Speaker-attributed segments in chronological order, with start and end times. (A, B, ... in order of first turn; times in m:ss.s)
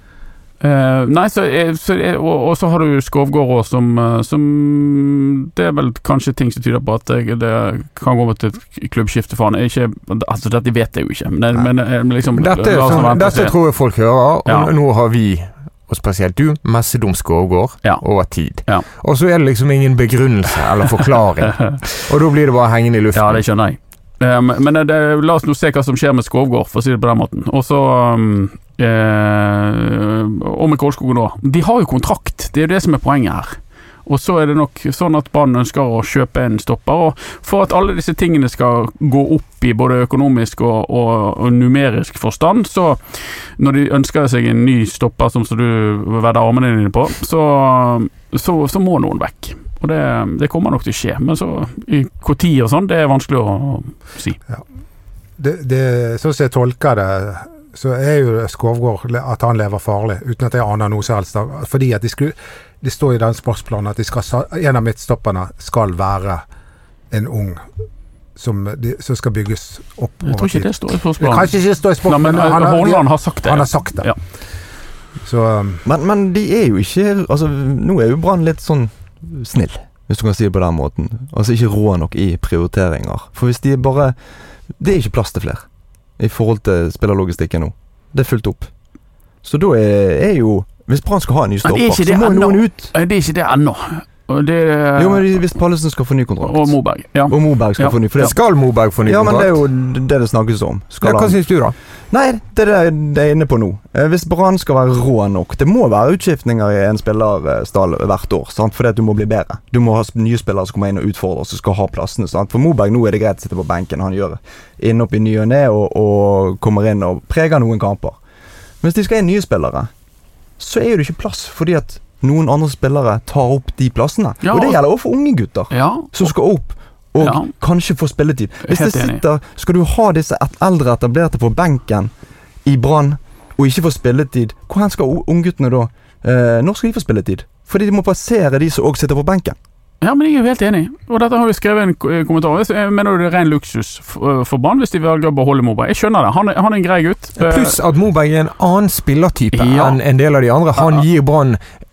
0:00.6-0:13.6 A
0:12.4-0:23.4 B
0:14.5-0:14.7 A
0:21.5-0:21.8 A
0:23.2-0:43.0 A
0:43.6-0:54.4 A
0:55.4-1:06.4 C
1:07.1-1:07.7 C
1:08.4-1:14.1 C
1:10.2-1:11.5 A
1:12.0-1:14.2 A
1:15.2-1:15.8 C
1:15.8-1:24.2 D
1:24.8-1:25.6 D
1:26.2-1:28.7 D
1:29.4-1:32.9 D
1:31.6-1:35.4 A
1:35.0-1:38.4 D
1:36.4-1:38.3 A
1:38.2-1:39.6 B
1:39.1-1:41.4 D
1:41.0-1:41.8 B
1:42.1-1:58.2 D
1:58.8-1:59.9 D
2:00.6-2:12.1 D
2:04.4-2:04.8 A
2:05.7-2:06.3 A
2:07.2-2:07.5 A
2:08.6-2:09.2 A
2:12.6-2:19.6 D
2:20.0-2:27.8 A
2:27.4-2:31.6 B
2:29.5-2:30.0 A